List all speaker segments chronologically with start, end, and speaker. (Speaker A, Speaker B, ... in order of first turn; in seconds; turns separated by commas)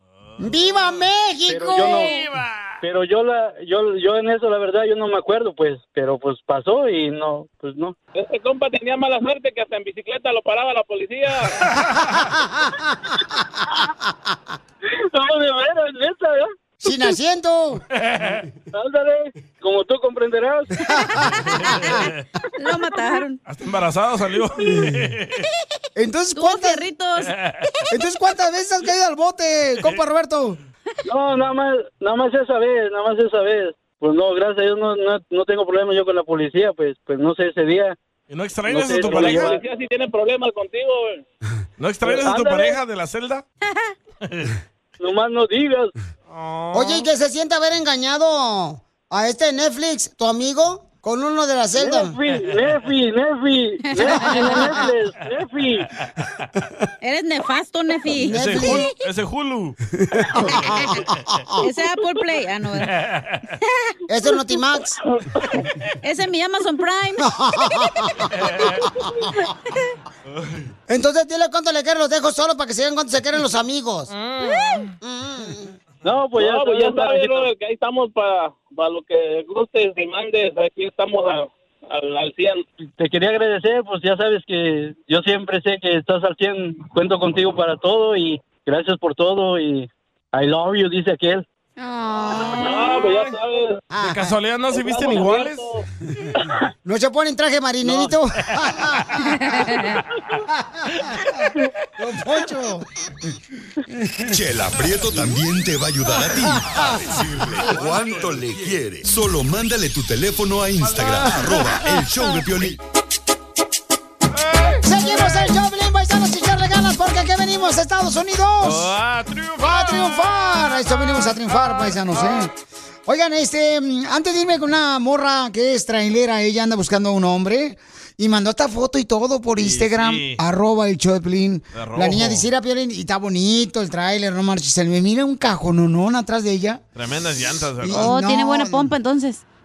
Speaker A: 0.2-1.1, Speaker B: 0.4-2.2, Speaker C: 1.5-2.1, Speaker A: 2.0-2.8, Speaker C: 2.8-8.0, Speaker D: 8.2-11.5, Speaker B: 11.8-14.4, Speaker C: 14.9-16.5, Speaker B: 16.8-17.8, Speaker A: 18.0-18.4, Speaker C: 18.7-20.7, Speaker B: 20.8-22.1, Speaker A: 21.5-22.2, Speaker E: 22.6-23.4, Speaker A: 23.4-25.4, Speaker B: 24.6-25.1, Speaker B: 26.0-26.9, Speaker E: 26.4-27.3, Speaker A: 27.3-27.6, Speaker B: 27.9-30.6, Speaker C: 31.1-38.0, Speaker A: 38.3-39.6, Speaker C: 38.7-39.6, Speaker D: 39.0-41.2, Speaker A: 41.8-43.4, Speaker C: 42.0-42.8, Speaker A: 44.2-44.5, Speaker C: 45.0-45.9, Speaker A: 46.3-47.1, Speaker B: 46.7-52.2, Speaker C: 51.8-55.9, Speaker A: 52.3-52.7, Speaker E: 53.9-54.5, Speaker B: 54.4-54.8, Speaker E: 57.0-58.8, Speaker B: 58.1-58.9, Speaker A: 58.3-59.8, Speaker B: 60.1-61.5, Speaker A: 60.6-61.0, Speaker E: 61.6-62.9, Speaker A: 62.8-63.5, Speaker B: 64.1-65.0, Speaker E: 66.0-67.3, Speaker B: 67.2-68.7, Speaker A: 68.3-68.8, Speaker A: 70.3-70.7, Speaker B: 70.9-74.1, Speaker A: 74.1-74.9, Speaker E: 74.5-74.8, Speaker B: 75.0-75.7, Speaker C: 76.0-77.5, Speaker D: 76.4-82.7, Speaker C: 82.9-91.4, Speaker E: 91.8-93.0, Speaker D: 92.6-93.8, Speaker B: 93.9-94.3, Speaker A: 94.0-95.7, Speaker D: 94.7-95.8, Speaker B: 96.8-99.2, Speaker E: 99.4-99.9, Speaker B: 100.5-101.4, Speaker B: 102.0-102.9, Speaker B: 103.9-104.3, Speaker F: 104.3-112.8, Speaker B: 106.2-107.2, Speaker A: 107.2-108.8, Speaker A: 110.8-111.8, Speaker A: 114.3-115.5, Speaker B: 114.8-118.9, Speaker A: 118.6-120.3, Speaker B: 119.6-122.5, Speaker A: 121.8-122.4, Speaker B: 123.1-136.8, Speaker A: 129.6-130.4, Speaker A: 131.7-132.5, Speaker A: 136.9-138.1, Speaker B: 137.8-138.9, Speaker E: 137.9-139.4